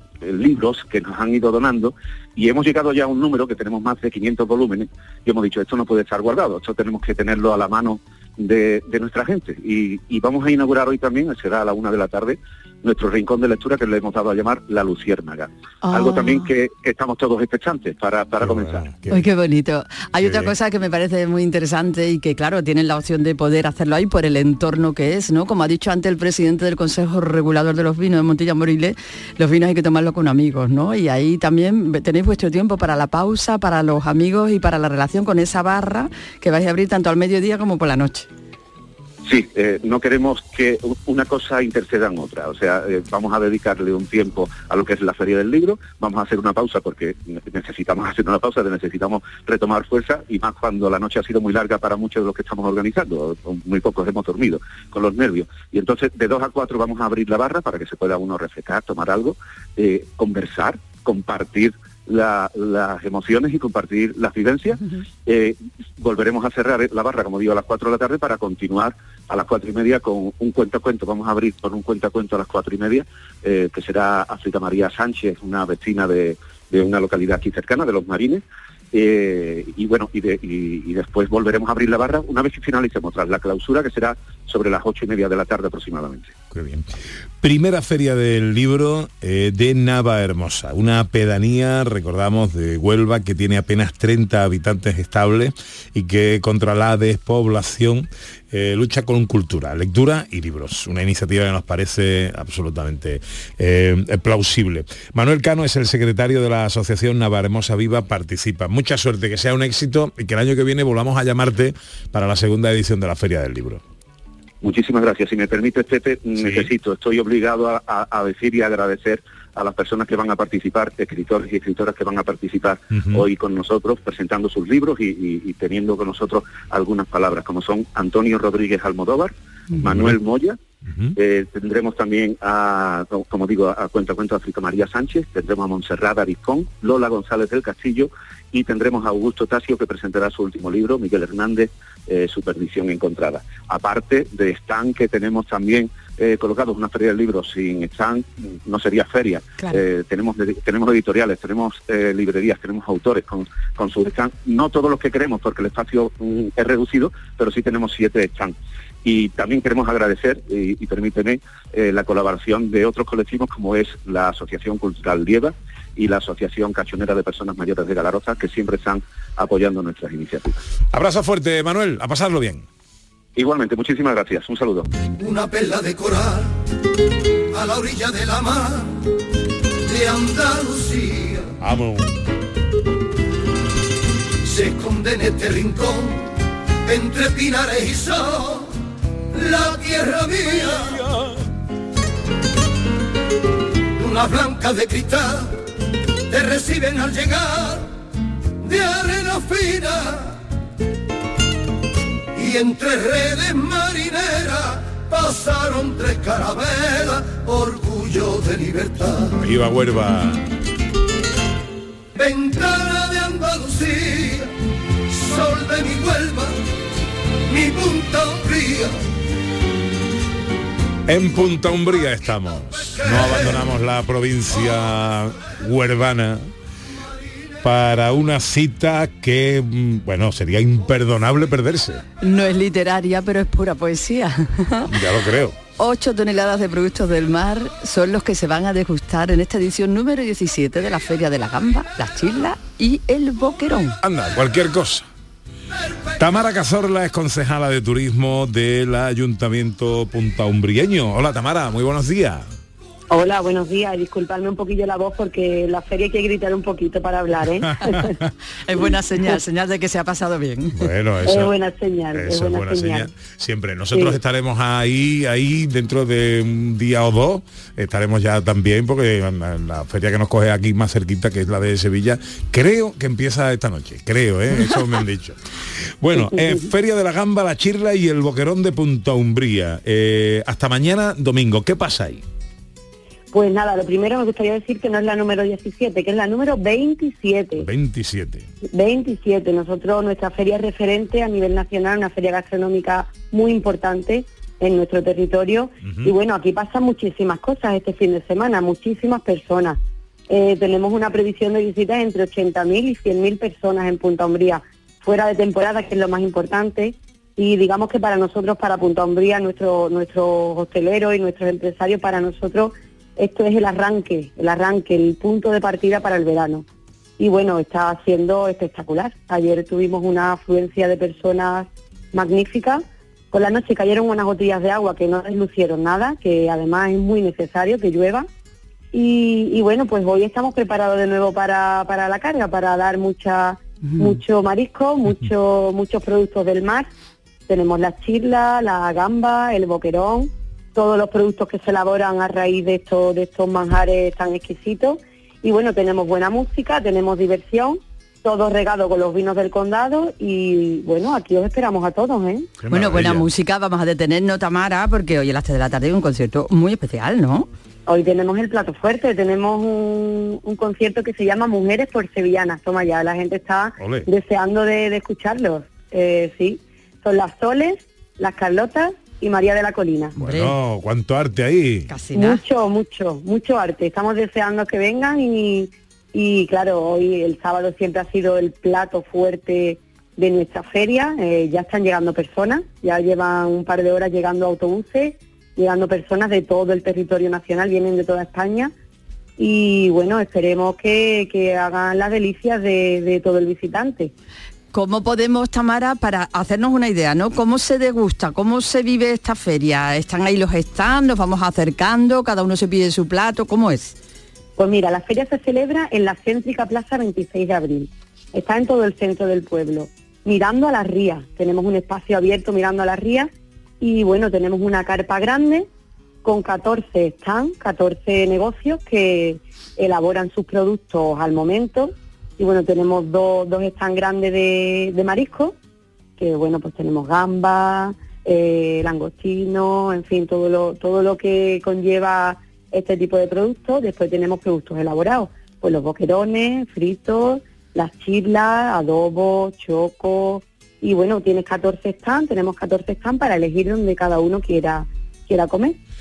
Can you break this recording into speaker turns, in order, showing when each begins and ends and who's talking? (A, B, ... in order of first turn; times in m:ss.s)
0:00.2-0:18.9 A
0:15.9-0:16.5 B
0:18.4-0:19.3 C
0:19.1-0:38.3 B
0:20.2-0:20.5 C
0:39.3-1:26.4 A
1:26.5-1:26.9 C
1:27.4-1:53.8 C
1:54.6-2:10.6 A
1:56.4-1:56.7 C
2:02.9-2:03.3 C
2:09.8-2:10.2 C
2:10.9-2:11.2 C
2:11.2-2:50.6 A
2:50.9-2:52.6 C
2:53.4-2:54.9 A
2:55.2-2:56.5 D
2:57.5-2:58.9 D
2:59.8-3:01.5 D
3:01.6-3:02.1 C
3:04.4-3:06.3 D
3:06.8-3:08.7 D
3:09.3-3:11.0 D
3:10.7-3:11.3 C
3:14.0-3:15.6 D
3:16.3-3:17.8 D
3:18.6-3:20.4 D
3:22.4-3:29.4 D
3:29.4-3:30.5 C
3:32.2-3:34.5 D
3:35.1-3:36.6 D
3:37.5-3:39.0 D
3:41.1-3:46.5 C
3:42.9-3:43.6 D
3:47.6-3:52.0 C
3:52.2-3:54.9 B
3:54.9-3:55.6 C
3:55.8-4:04.0 B
4:04.0-4:05.1 C
4:06.2-4:12.5 C
4:13.1-4:18.2 E
4:18.7-4:20.9 B
4:20.8-4:21.6 C
4:21.3-4:23.1 E
4:22.1-4:35.4 C
4:23.9-4:24.2 E
4:36.0-4:42.2 C
4:43.3-4:47.7 E
4:47.6-4:48.5 C
4:48.7-4:59.8 E
4:55.8-4:56.1 C
5:00.3-5:16.6 E
5:17.2-5:28.3 E
5:28.9-5:36.9 E
5:33.9-5:34.2 B
5:37.5-5:52.5 E
5:52.6-5:53.3 C
5:52.7-5:57.5 B
5:57.9-6:10.1 E
6:03.8-6:04.1 C
6:10.2-6:11.9 C
6:10.2-6:10.5 B
6:11.9-6:12.4 B
6:12.2-6:28.7 E
6:29.4-6:34.1 E
6:34.7-6:44.0 B
6:44.6-6:53.3 E
6:53.8-6:55.7 E
6:56.2-7:05.6 E
7:06.2-7:25.8 E